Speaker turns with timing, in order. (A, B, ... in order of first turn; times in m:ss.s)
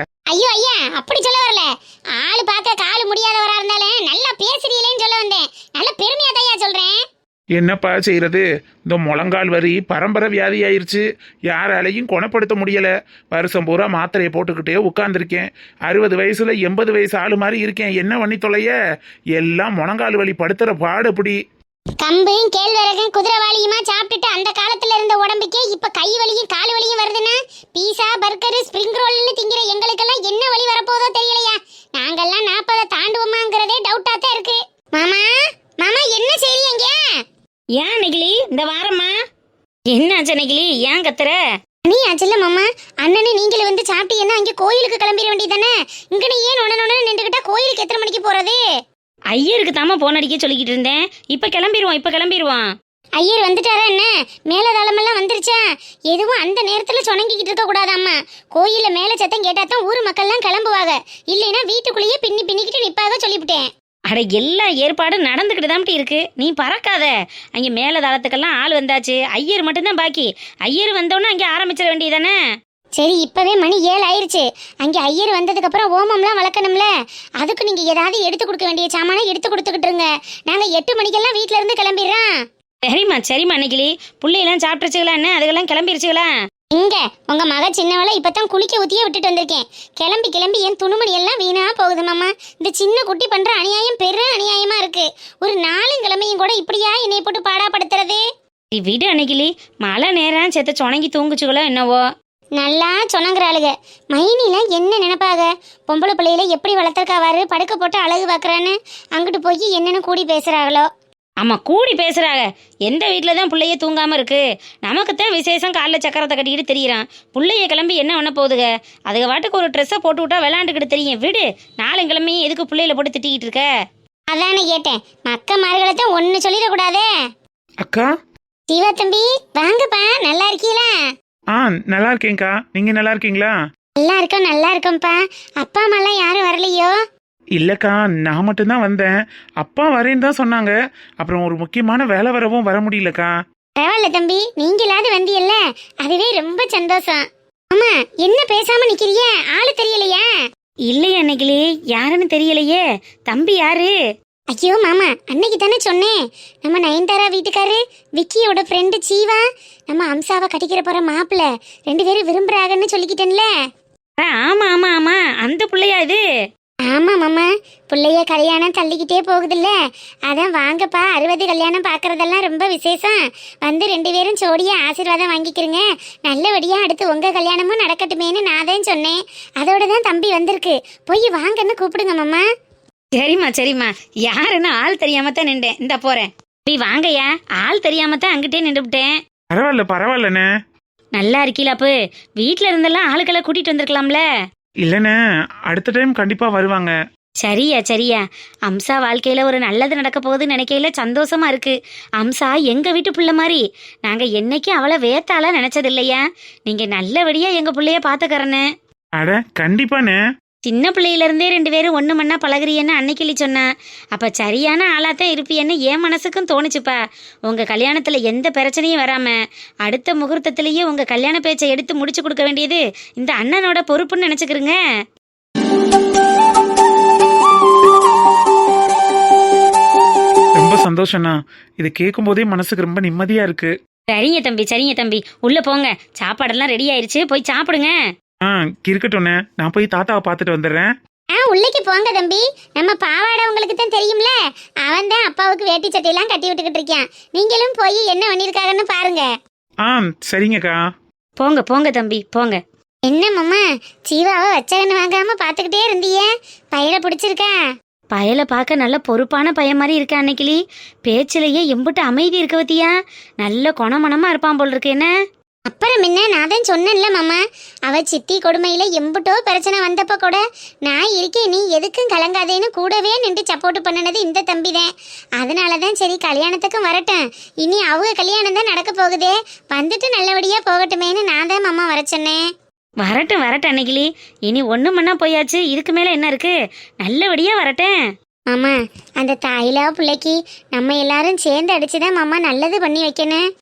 0:00.3-0:07.0 A
0:07.6-0:18.7 B
0:19.3-0:21.4 B
0:22.0-0:37.0 A
0:37.8-0:39.2 C
0:39.9-0:41.4 C
0:41.8-0:48.6 A
0:49.3-0:52.7 C
0:53.2-1:03.7 A
1:04.1-1:12.4 C
1:13.0-1:16.9 A
1:17.4-1:22.3 A
1:22.8-1:26.3 C
1:26.7-1:38.2 A
1:38.7-1:42.0 C
1:42.6-1:50.9 A
1:51.4-2:03.7 C
2:04.3-2:07.1 A
2:07.8-2:08.1 B
2:08.7-2:11.0 A
2:11.5-2:13.5 B
2:14.0-2:16.9 A
2:17.6-2:23.3 B
2:23.8-2:30.3 A
2:30.9-2:33.9 C
2:34.5-2:43.5 A
2:44.2-2:46.2 C
2:46.8-2:49.8 A
2:50.3-3:02.4 A
3:03.1-3:09.2 C
3:09.5-3:10.4 B
3:11.2-3:14.2 C
3:14.8-3:15.2 B
3:15.7-3:17.0 B
3:17.4-3:28.6 C
3:29.2-3:30.2 B
3:30.6-3:44.8 C
3:50.6-3:53.7 B
3:54.1-3:57.9 C
3:58.4-4:00.9 B
4:01.3-4:09.3 A
4:09.8-4:10.8 B
4:11.4-4:12.6 C
4:13.1-4:17.5 A
4:18.1-4:25.1 C
4:25.7-4:34.9 A
4:35.4-4:42.4 A
4:43.0-4:47.9 C
4:48.5-4:53.4 A